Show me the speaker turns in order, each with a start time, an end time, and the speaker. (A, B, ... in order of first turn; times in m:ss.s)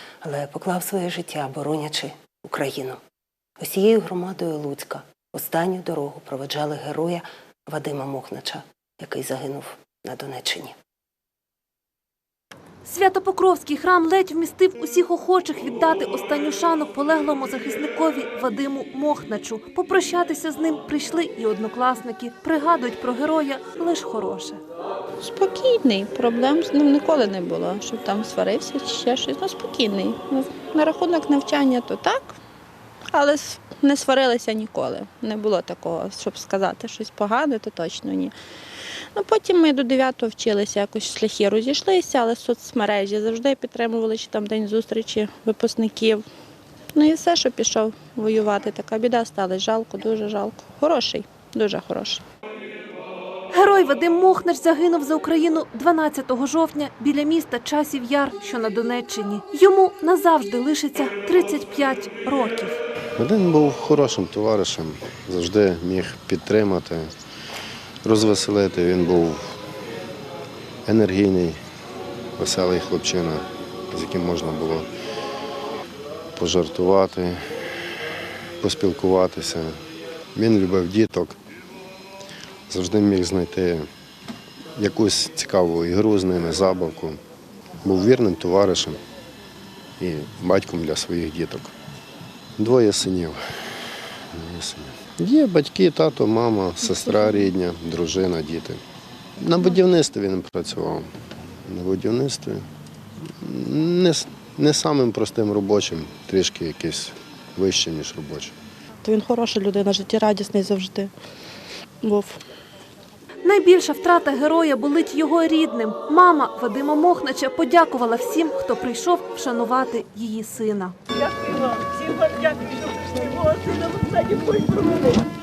0:00.2-0:03.0 A
0:03.6-0:10.8 A
0:12.8-0:24.6 B
0:25.2-0:32.4 C
0:33.1-0:38.3 C
0:38.9-0:46.2 C
0:46.9-0:52.2 C
0:53.5-1:02.8 B
1:03.2-1:07.1 D
1:08.0-1:09.6 D
1:10.9-1:11.6 D
1:12.4-1:14.9 D
1:16.4-1:17.4 D
1:18.6-1:19.8 D
1:20.4-1:21.4 D
1:22.7-1:23.9 D
1:24.8-1:27.2 D
1:27.8-1:29.0 D
1:30.0-1:31.7 D
1:32.6-1:33.4 D
1:34.3-1:38.8 D
1:39.4-1:41.1 D
1:41.7-1:42.6 D
1:43.2-1:48.5 D
1:49.0-1:51.1 E
1:52.0-1:52.4 E
1:53.4-2:01.0 B
2:01.2-2:05.2 F